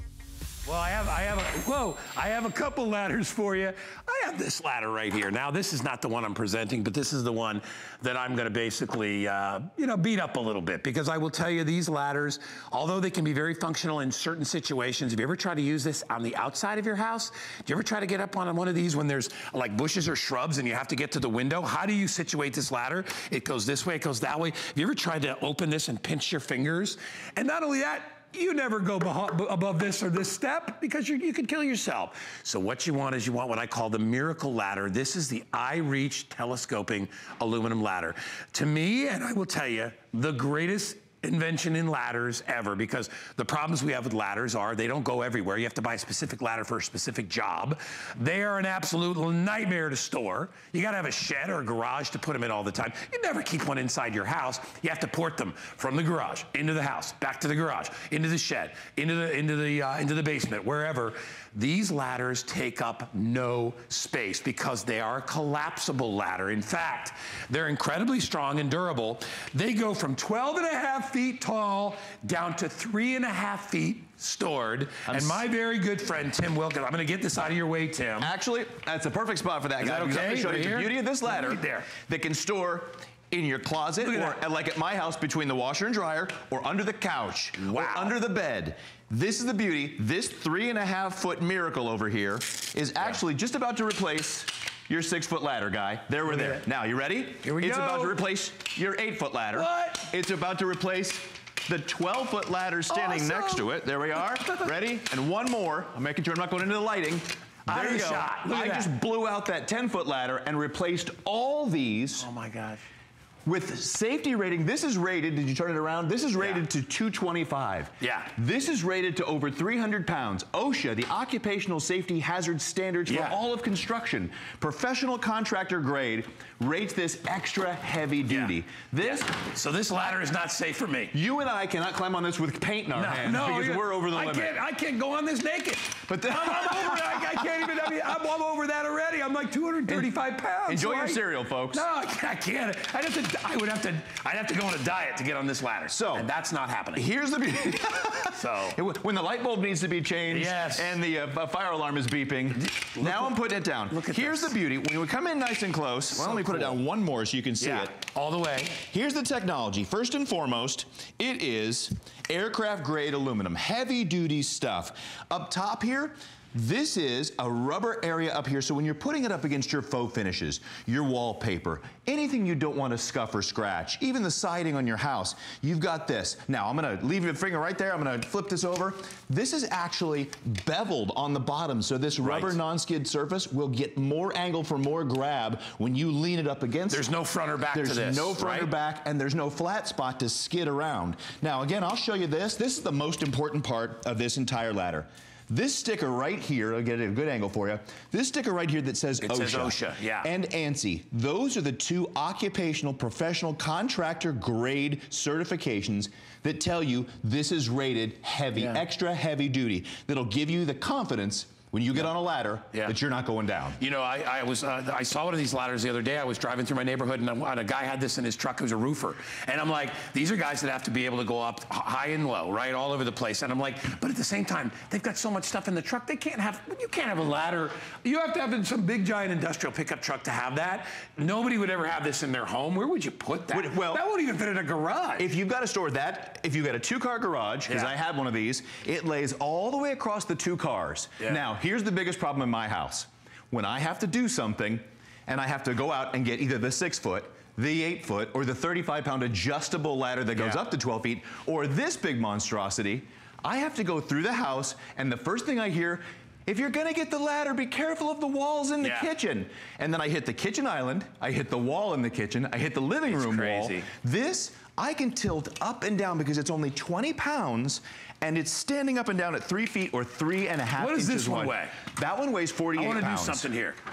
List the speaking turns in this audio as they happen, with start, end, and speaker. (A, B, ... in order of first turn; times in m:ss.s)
0:00.7-1:18.3 A
1:15.1-1:15.4 B
1:18.2-1:52.3 B
1:19.8-1:21.9 A
1:24.0-1:24.4 A
1:27.6-1:28.1 A
1:36.3-1:36.6 A
1:37.4-1:38.2 A
1:39.5-1:40.1 A
1:42.9-1:43.7 A
1:44.2-1:44.7 A
1:47.7-1:48.9 A
1:52.2-1:52.9 A
1:53.5-2:09.3 B
1:58.0-1:58.3 A
2:03.1-2:03.4 A
2:08.3-2:08.5 A
2:09.0-2:11.2 A
2:11.1-2:14.6 B
2:12.9-2:21.2 A
2:16.1-2:17.5 B
2:20.7-2:21.8 B
2:21.7-2:27.1 A
2:25.9-2:26.2 B
2:27.0-2:37.9 B
2:28.4-2:28.8 A
2:30.3-2:31.0 A
2:32.6-2:33.4 A
2:33.9-2:34.6 A
2:36.1-2:36.8 A
2:37.6-2:38.8 A
2:38.9-3:07.0 B
3:02.2-3:02.6 A
3:06.9-3:08.7 A
3:07.7-3:33.8 B
3:19.2-3:20.3 A
3:28.6-3:28.8 A
3:33.8-3:55.3 A
3:53.5-3:54.0 B
3:55.2-4:33.4 B
3:57.7-3:57.9 A
4:10.4-4:10.6 A
4:18.8-4:19.1 A
4:23.1-4:23.9 A
4:30.8-4:31.8 A
4:32.8-4:33.8 A